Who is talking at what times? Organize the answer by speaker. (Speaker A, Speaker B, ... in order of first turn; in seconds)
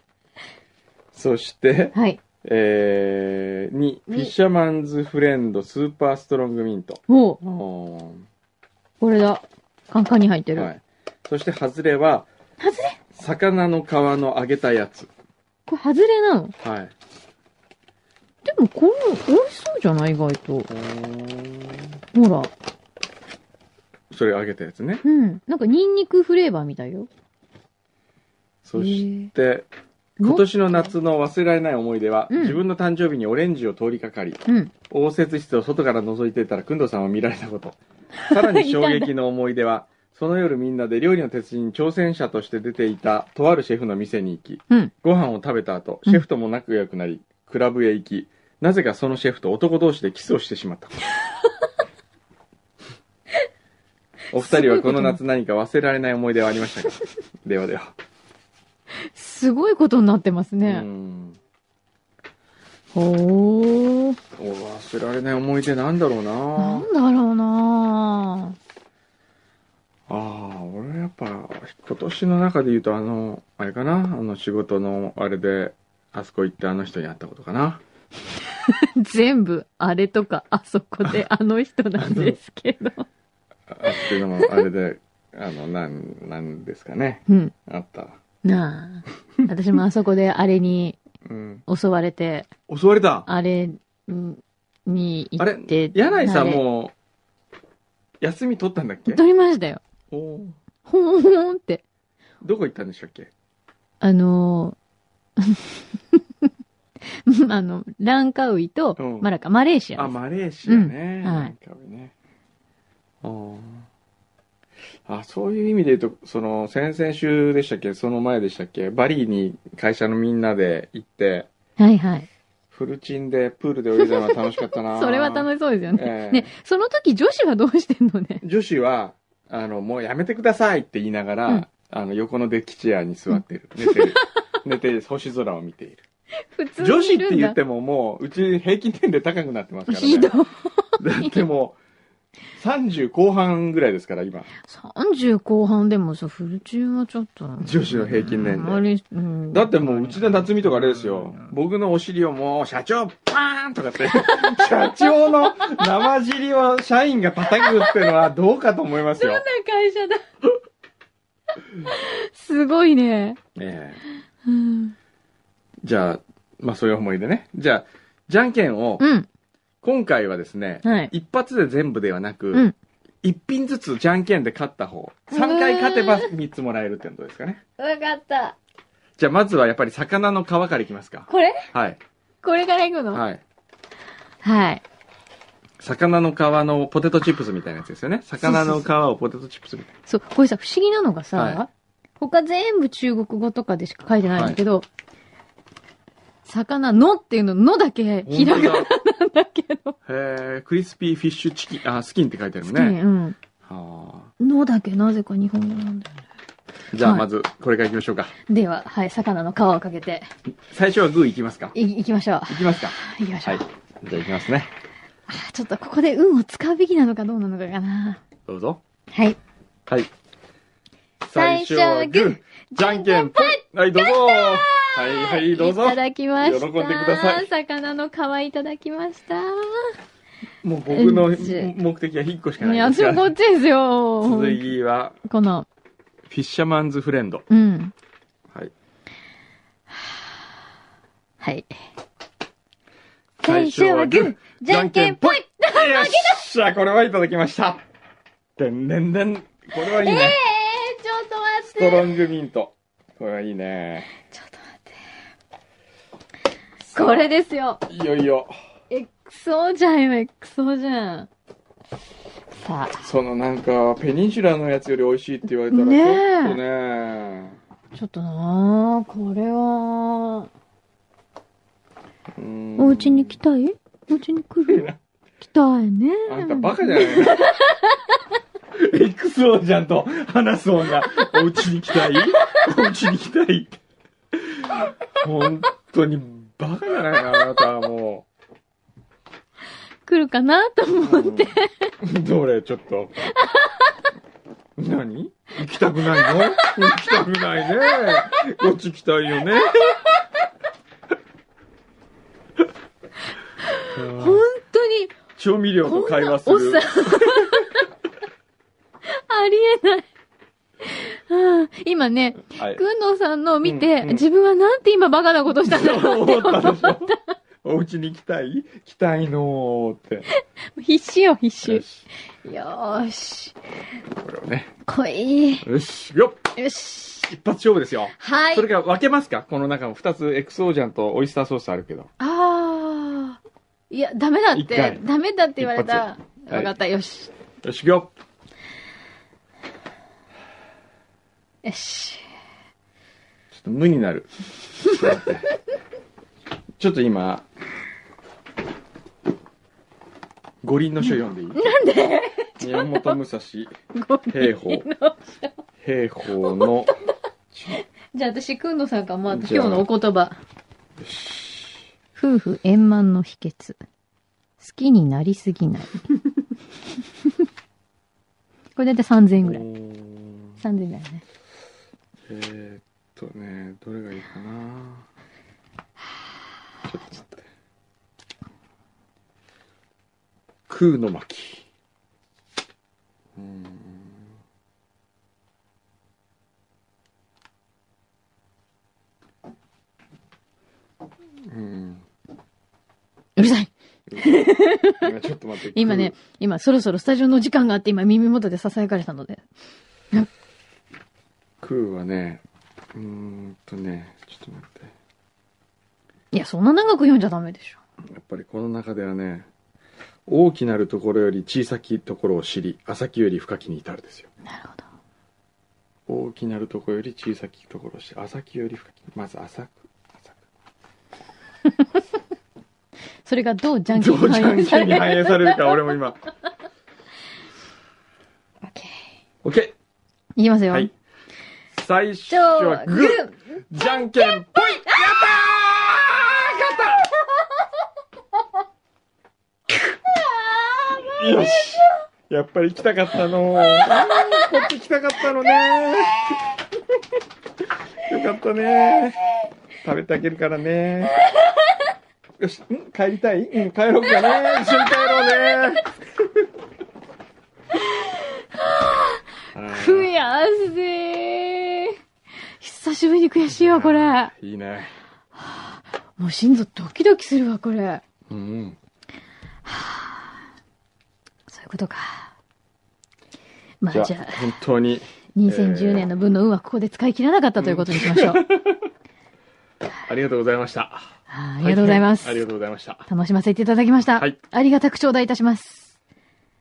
Speaker A: 1.1-8.3, 10.6-12.3, 13.1-15.1, 16.6-16.9, 20.7-21.9, 24.1-25.0, 28.6-29.7, 30.2-37.8, 38.3-51.0, 54.3-58.0, 60.6-61.4, 64.4-66.9, 70.1-77.8, 82.0-82.4, 83.7-88.2, 91.2-91.7, 92.7-93.3, 95.4-96.9, 98.2-99.2, 100.1-100.5, 102.4-103.3, 109.0-109.3, 110.0-112.1, 113.2-113.9, 115.1-121.5, 122.7-126.5, 128.4-136.0, 136.8-140.3, 141.0-141.8, 142.6-144.5, 147.6-148.8, 149.5-159.4, 163.6-164.0, 165.8-169.1, 169.8-172.6, 173.2-177.6, 179.2-182.0, 183.1-183.4, 185.8-189.9, 191.3-191.6, 198.3-198.9, 200.1-203.0, 203.7-204.3, 206.9-208.3, 210.7-211.8, 212.5-214.7, 218.5-218.8, 221.3-227.5, 230.6-233.3, 234.2-235.2, 236.3-237.4, 243.4-247.8, 248.6-250.4, 251.7-254.1, 256.9-257.3, 257.9-258.5, 263.0-267.6, 272.4-273.4, 274.7-275.0, 276.3-277.5, 278.7-283.8, 284.4-288.3, 291.0-293.2, 294.8-300.0, 303.9-304.4, 305.4-307.6, 312.6-312.8, 313.6-314.2, 315.7-317.1, 317.6-320.3, 321.6-322.1, 324.2-324.7, 325.6-326.5, 327.2-332.1, 334.5-335.0, 335.6-336.7, 337.6-338.1, 343.5-344.3, 344.8-345.5, 346.8-347.5, 350.6-351.7, 352.6-353.7, 354.3-354.9, 355.8-356.9, 357.5-357.8, 359.3-359.9, 361.0-361.9, 369.4-370.6, 372.2-375.1, 376.8-377.5, 380.7-381.6, 383.4-384.2, 391.5-392.0, 394.1-396.1, 401.6-402.4, 402.9-404.9, 408.1-409.5, 410.3-414.3, 416.1-420.3, 423.9-426.2, 429.4-429.8, 431.7-437.1, 441.1-446.2, 448.1-449.2, 449.8-451.2, 452.4-455.9, 459.5-460.1, 463.5-464.9, 468.3-468.8, 473.9-476.1, 477.6-478.8, 480.1-483.1
Speaker B: 1.9-2.2, 4.1-4.3, 7.1-7.4, 9.0-10.7, 12.6-13.0, 15.7-16.5, 18.4-20.7, 22.1-22.5, 25.0-27.1, 28.8-29.3, 30.2-30.9, 32.3-32.6, 38.2-39.1, 54.4-55.2, 59.1-60.9, 62.9-64.2, 66.6-68.5, 78.7-83.1, 83.9-84.6, 87.3-87.5, 88.4-91.0, 91.7-92.5, 93.3-96.6, 99.1-99.8, 100.9-101.8, 104.0-104.8, 105.4-106.2, 107.3-110.2, 110.7-111.5, 121.8-122.3, 124.0-128.4, 133.9-134.2, 136.5-137.6, 139.9-141.4, 144.7-150.4, 154.3-155.8, 157.5-158.0, 159.1-160.2, 161.9-163.4, 164.5-164.9, 169.0-169.3, 170.8-171.1, 175.3-176.3, 177.8-178.6, 181.3-181.7, 182.4-183.2, 184.4-184.8, 188.4-188.9, 190.1-194.9, 196.5-200.0, 202.7-203.4, 204.4-206.2, 207.0-207.3, 208.5-210.3, 211.8-213.7, 215.3-218.2, 219.1-219.4, 221.3-229.9, 230.9-231.7, 232.6-234.6, 235.3-235.7, 237.5-237.9, 239.9-240.2, 241.4-241.8, 243.4-246.4, 249.8-252.2, 254.2-255.0, 256.9-257.8, 258.9-261.3, 262.6-263.0, 265.7-266.6, 267.9-270.5, 272.8-274.9, 275.4-278.0, 282.3-282.6, 290.1-291.9, 293.3-294.1, 296.1-296.8, 297.9-298.2, 303.6-305.1, 305.8-307.9, 309.1-310.1, 310.9-317.3, 320.8-321.8, 322.4-323.6, 324.9-325.7, 326.6-327.3, 328.2-328.7, 332.2-333.4, 333.9-337.3, 341.6-342.2, 351.5-353.2, 353.9-355.6, 356.4-356.7, 357.7-360.4, 362.2-363.8, 364.6-366.0, 368.8-369.6, 370.6-371.2, 393.4-395.0, 395.7-399.4, 406.3-407.8, 414.4-414.9, 423.2-425.8, 428.6-429.1, 430.4-430.9, 432.3-435.2, 439.9-441.7, 443.8-444.4, 454.4-455.6, 457.8-462.0, 462.6-464.3, 465.4-468.0, 469.7-470.3, 471.5-472.3, 473.8-474.4, 475.4-478.4, 481.3-482.5, 483.1-486.0